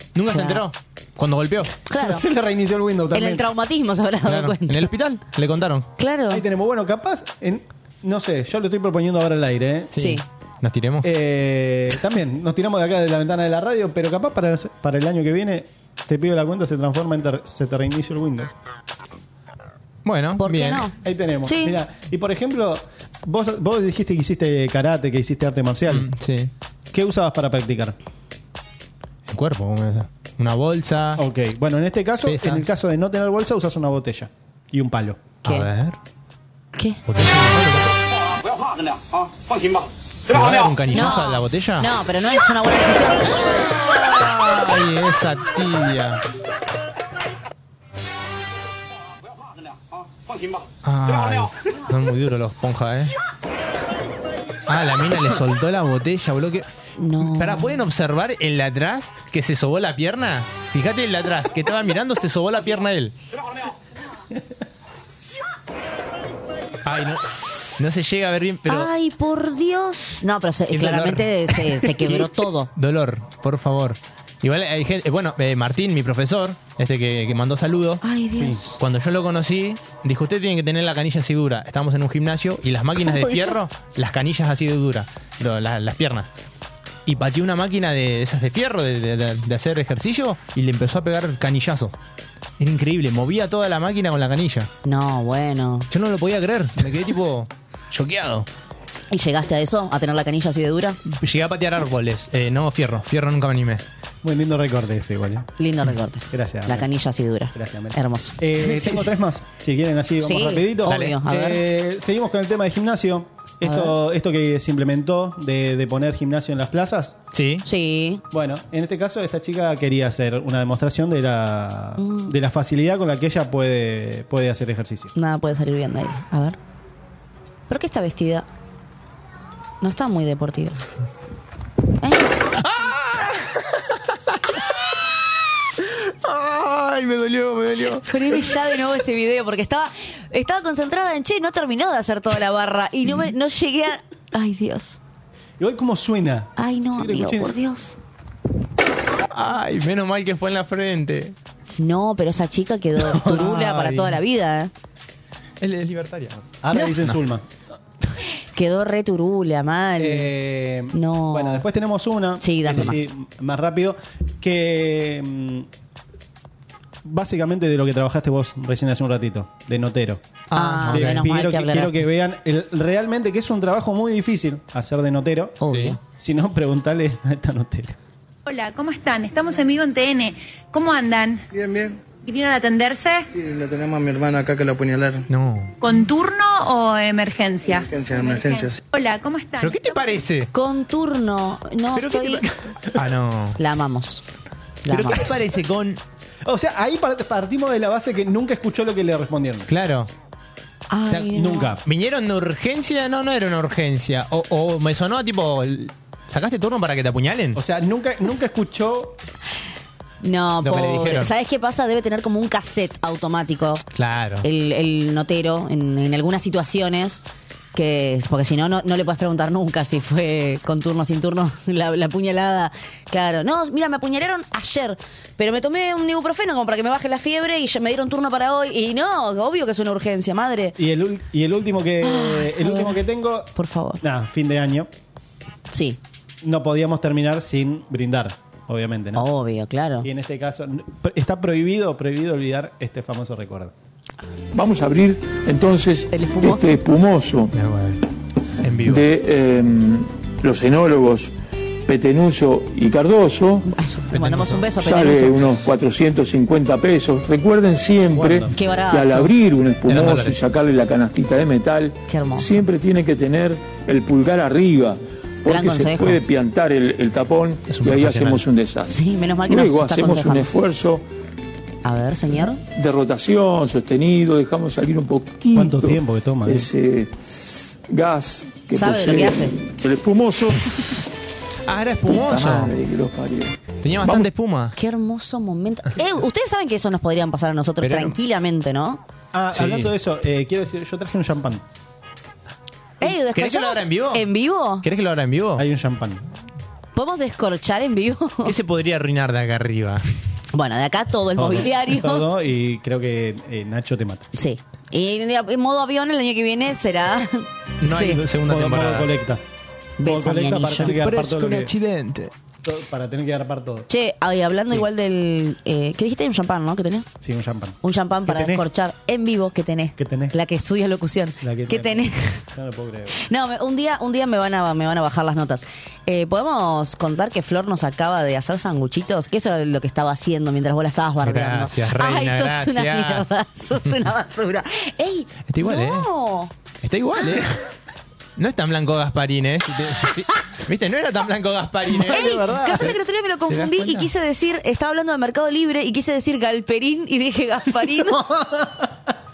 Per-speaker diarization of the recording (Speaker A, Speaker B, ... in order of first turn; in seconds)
Speaker A: 0.1-1.8, 4.2-5.9, 9.9-11.1, 20.0-20.9, 25.9-26.5, 29.3-31.2, 32.2-32.6, 35.4-36.0, 37.1-38.0, 40.3-41.9, 43.6-46.2, 50.8-53.1, 54.7-56.6, 57.2-63.1, 66.8-67.2, 67.8-68.9, 70.7-72.2, 72.8-78.0, 78.8-86.3, 87.0-91.9, 92.6-94.7, 95.9-98.5, 101.1-103.8, 110.9-111.2, 117.3-117.6, 136.2-138.0, 149.3-151.3, 153.1-154.2, 155.6-156.4, 170.5-171.2, 175.7-176.0, 185.3-185.7, 189.6-190.5, 192.9-193.6, 194.9-196.0, 199.7-200.1, 201.1-207.6, 210.6-211.3, 213.9-214.4, 247.5-248.0, 248.6-249.1, 254.1-254.7, 259.9-260.4, 267.7-268.4, 281.6-282.8, 283.8-284.7, 287.8-288.2, 289.5-289.9, 293.0-294.3, 294.8-295.6, 298.4-300.0, 307.8-309.1, 310.9-312.3, 331.2-333.3, 335.5-336.1, 336.8-337.6, 338.4-342.9, 343.5-344.1
Speaker B: 0.3-0.6, 1.9-2.2, 3.1-4.9, 6.0-6.4, 10.0-10.2, 20.4-20.9, 21.4-21.8, 40.9-43.4, 57.0-57.8, 68.7-72.7, 78.0-78.8, 94.8-95.9, 99.1-101.0, 105.6-109.1, 110.2-111.6, 113.6-113.9, 117.6-118.2, 122.0-122.3, 125.2-126.6, 127.7-128.4, 129.8-130.8, 132.0-132.3, 138.0-145.0, 146.6-148.0, 151.8-154.7, 158.5-160.3, 160.9-161.6, 162.4-163.1, 170.5-172.0, 175.6-176.0, 190.5-192.4, 193.6-194.2, 194.8-195.3, 200.9-201.7, 210.2-213.8, 214.4-217.2, 217.7-230.8, 232.0-233.0, 233.5-234.0, 235.7-236.0, 239.1-240.1, 246.1-246.8, 253.7-255.5, 258.5-259.3, 262.1-262.6, 265.5-266.2, 268.9-270.5, 271.8-272.6, 278.7-279.5, 284.7-289.0, 293.0-294.9, 296.9-298.5, 300.5-302.2, 304.3-308.2, 310.0-311.0, 313.9-317.1, 317.8-322.4, 323.3-336.5, 342.0-348.2
Speaker C: 2.0-3.5, 6.3-9.9, 11.0-18.5, 21.0-26.1, 26.9-27.9, 31.2-35.2, 78.3-78.6, 83.1-83.5, 104.2-105.5, 106.3-106.9, 107.5-117.2, 118.3-125.1, 145.6-147.6, 153.1-153.6, 156.6-157.4, 160.0-165.7, 167.0-170.2, 170.9-175.6, 176.1-178.0, 191.9-193.0, 196.4-199.7, 201.3-201.8, 207.5-209.2, 230.8-234.9, 236.4-239.3, 240.0-243.7, 258.1-258.5, 275.5-276.7, 289.3-291.6, 295.6-296.2, 301.3-304.3, 308.4-309.4, 310.0-311.7, 312.6-313.9, 317.2-318.6, 320.0-320.3, 321.4-323.2, 341.9-342.9, 348.1-348.8
Speaker D: 178.4-181.4, 182.2-183.3, 185.8-190.2
Speaker E: 181.5-182.0, 183.3-185.3, 187.7-188.8
Speaker F: 244.5-247.5, 248.8-251.3, 251.8-253.7, 254.8-271.0, 272.7-281.0, 282.1-283.5